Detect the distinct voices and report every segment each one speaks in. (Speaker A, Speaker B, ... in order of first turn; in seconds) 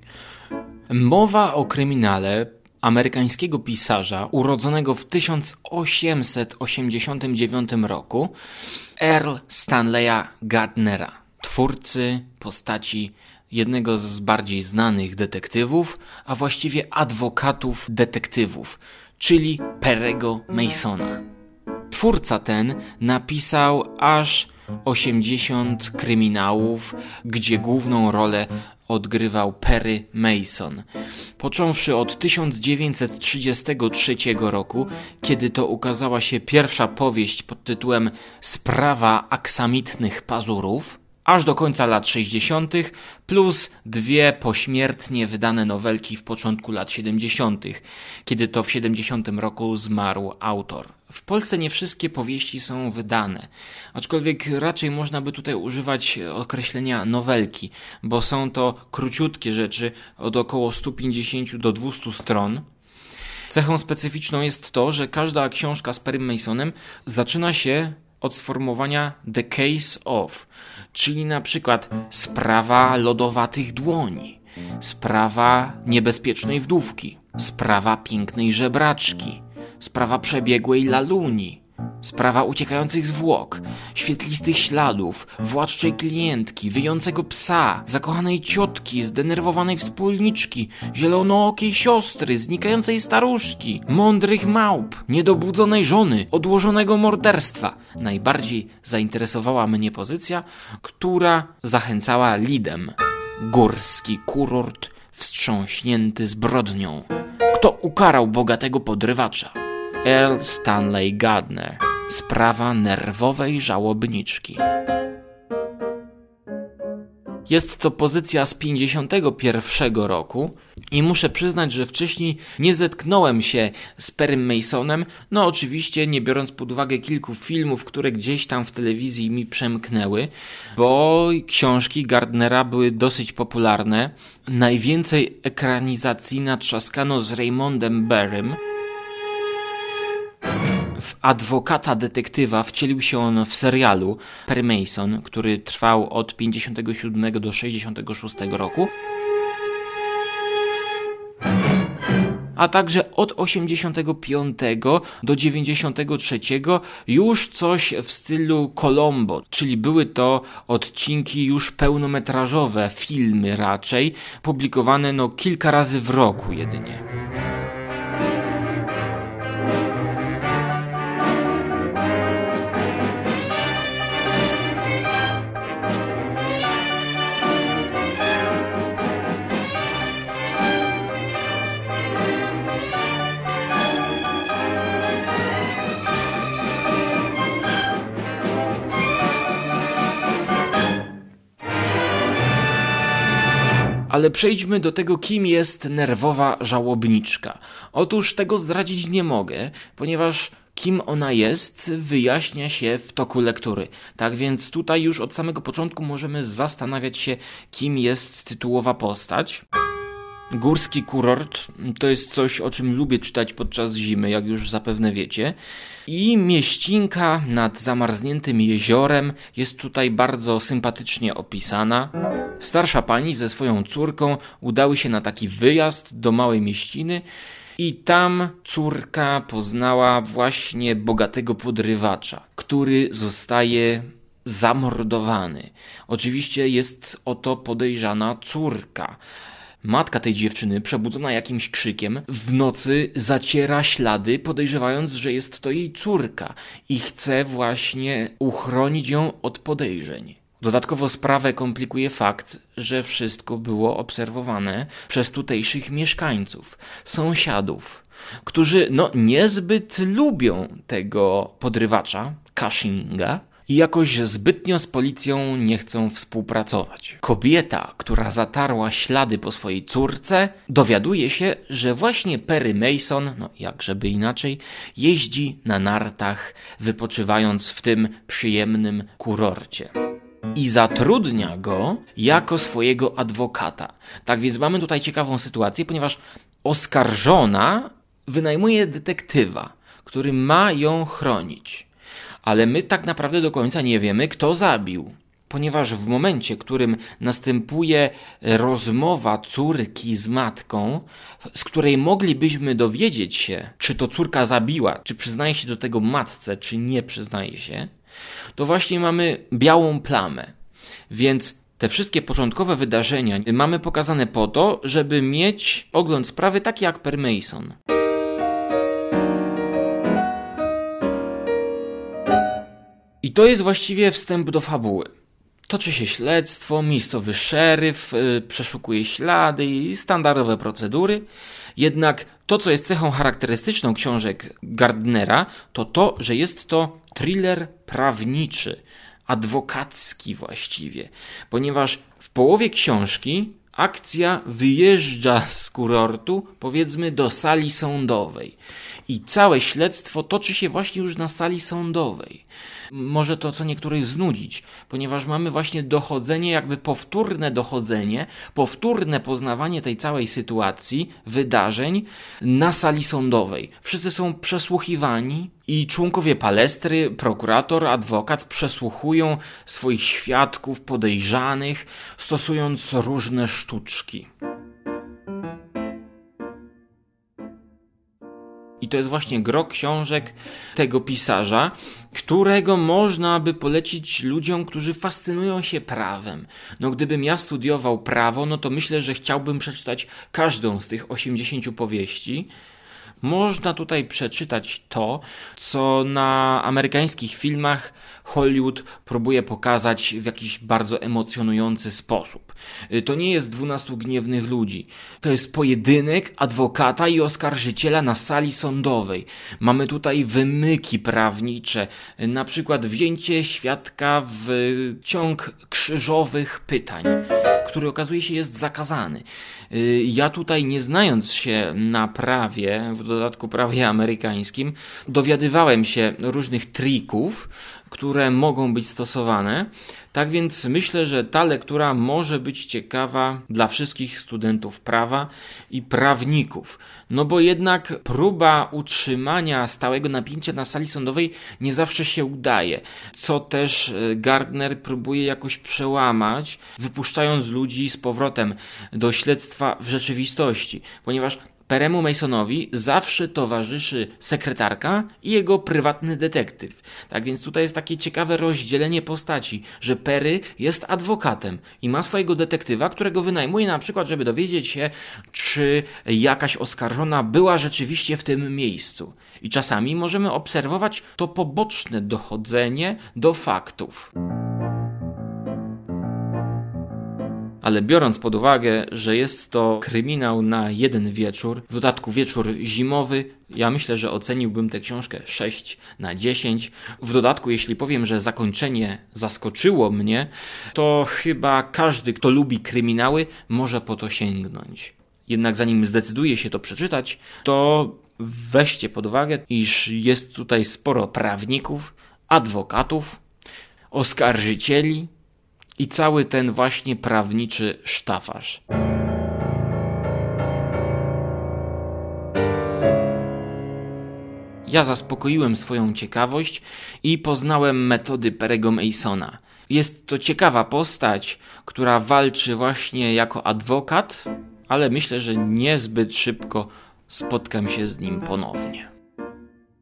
Speaker A: 0.9-8.3, 9.0-21.2, 21.9-30.8, 31.4-62.6, 63.5-114.6, 117.5-138.6, 140.9-148.9, 152.5-167.0, 194.1-209.6, 210.5-227.2, 227.8-239.2, 239.8-279.9, 280.5-291.9, 292.4-307.9, 308.5-310.5, 311.1-317.7, 323.2-325.1, 325.7-331.2, 331.8-348.6, 349.1-374.3, 378.8-392.5, 393.2-474.1, 477.6-503.2, 503.9-505.1, 505.8-508.6, 514.6-528.9